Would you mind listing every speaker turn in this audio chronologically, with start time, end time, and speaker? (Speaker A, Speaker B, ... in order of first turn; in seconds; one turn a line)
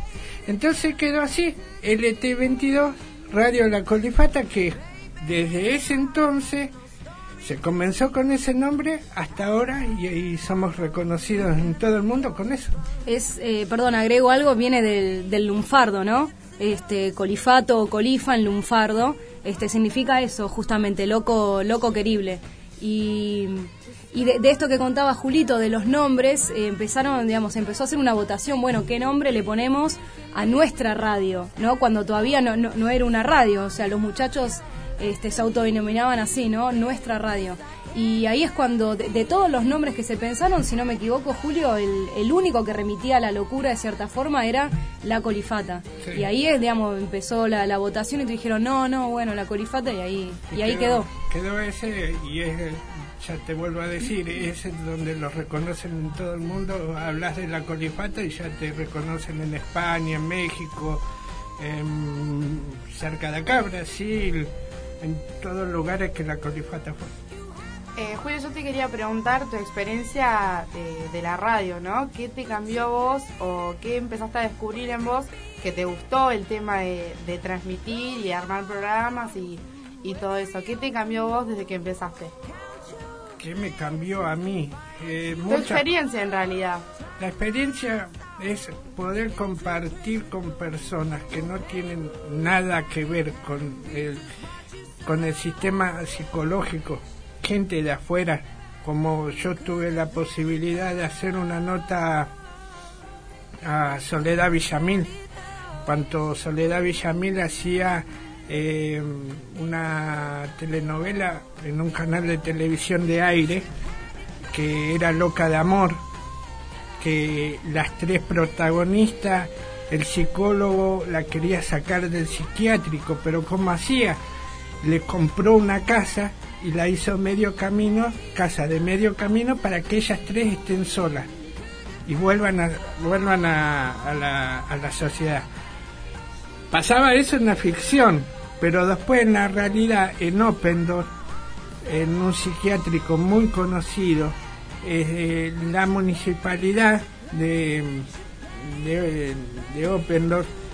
Speaker A: 0.5-6.7
Speaker A: 7.4-12.7
Speaker B: 13.1-51.1
Speaker A: 50.5-61.0
Speaker A: 61.6-67.1
Speaker C: 68.0-82.3
Speaker A: 83.4-85.8
Speaker C: 85.5-86.8
Speaker A: 87.2-94.2
Speaker A: 95.0-102.3
Speaker A: 103.6-105.1
Speaker A: 105.8-113.7
Speaker A: 114.5-116.0
Speaker A: 117.0-124.2
Speaker A: 124.8-131.3
Speaker A: 132.1-135.5
Speaker A: 136.7-141.1
Speaker A: 141.8-150.5